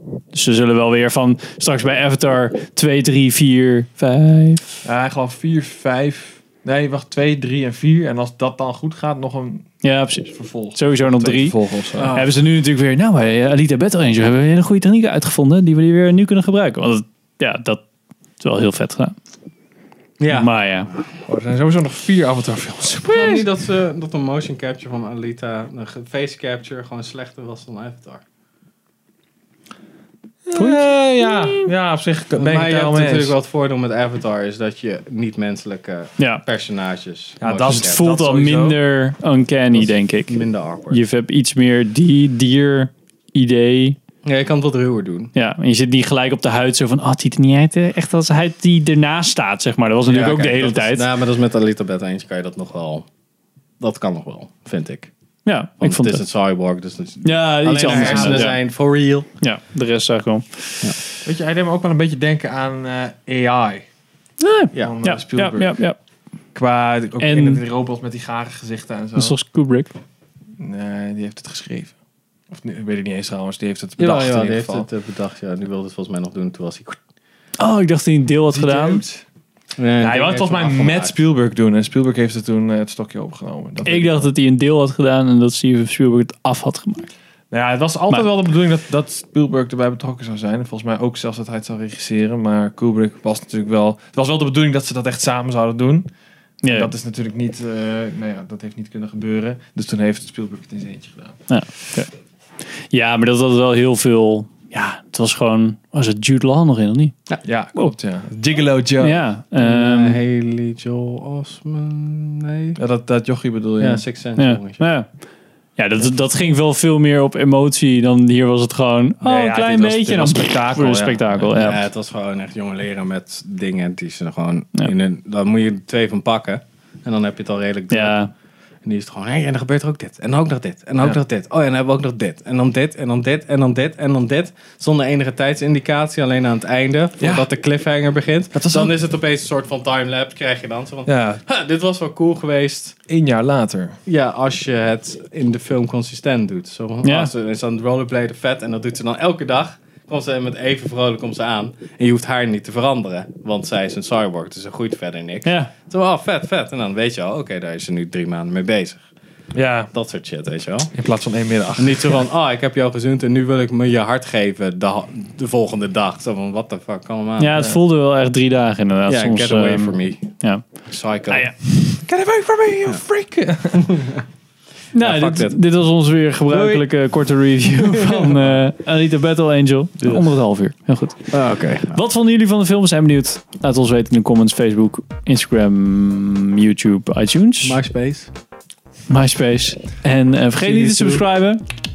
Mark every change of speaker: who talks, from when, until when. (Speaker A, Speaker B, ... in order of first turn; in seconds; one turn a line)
Speaker A: 0.3-4.8
Speaker B: 4.8-12.1
Speaker A: 9.8-11.6
Speaker C: 11.9-12.3
Speaker A: 12.1-17.8
Speaker A: 18.4-19.1
Speaker C: 20.2-20.5
Speaker A: 20.3-20.9
Speaker B: 21.2-23.5
Speaker C: 23.1-28.2
Speaker B: 30.4-33.4
Speaker A: 30.6-31.7
Speaker C: 32.4-38.0
Speaker A: 36.2-36.4
Speaker B: 37.4-38.8
Speaker A: 37.7-44.0
Speaker C: 39.7-41.0
Speaker C: 44.2-45.3
Speaker A: 45.4-51.1
Speaker C: 50.1-53.1
Speaker C: 53.8-55.1
Speaker A: 55.4-56.2
Speaker C: 55.8-59.3
Speaker A: 57.2-58.6
Speaker B: 57.9-58.4
Speaker A: 59.4-61.0
Speaker B: 61.2-63.9
Speaker A: 64.4-66.0
Speaker B: 64.8-65.8
Speaker B: 66.5-69.4
Speaker A: 67.2-67.6
Speaker A: 69.2-69.9
Speaker B: 70.6-71.9
Speaker B: 72.5-74.9
Speaker C: 74.0-77.0
Speaker A: 77.6-79.0
Speaker B: 78.5-79.2
Speaker C: 79.8-81.2
Speaker B: 80.0-84.3
Speaker A: 83.8-87.1
Speaker B: 87.5-96.1
Speaker A: 96.6-96.9
Speaker B: 96.7-101.5
Speaker A: 101.5-102.1
Speaker A: 102.9-107.2
Speaker B: 107.4-109.2
Speaker A: 109.0-110.2
Speaker C: 109.6-112.8
Speaker B: 112.8-114.0
Speaker C: 113.8-114.9
Speaker A: 114.4-115.1
Speaker A: 115.8-121.8
Speaker B: 119.2-121.5
Speaker C: 121.5-128.2
Speaker A: 127.9-128.3
Speaker C: 128.8-142.9
Speaker B: 137.2-137.5
Speaker B: 138.5-138.9
Speaker B: 141.1-141.4
Speaker B: 143.1-144.0
Speaker C: 144.1-159.1
Speaker A: 147.0-147.3
Speaker A: 155.4-155.7
Speaker B: 159.5-159.9
Speaker C: 159.9-160.9
Speaker B: 160.9-162.2
Speaker C: 161.8-167.6
Speaker A: 167.4-171.6
Speaker C: 169.1-171.5
Speaker B: 171.8-173.9
Speaker C: 173.7-174.2
Speaker A: 174.9-187.8
Speaker C: 175.0-175.6
Speaker C: 176.5-176.9
Speaker C: 178.0-178.3
Speaker C: 181.3-182.0
Speaker C: 187.6-188.3
Speaker A: 189.1-191.6
Speaker C: 190.6-191.2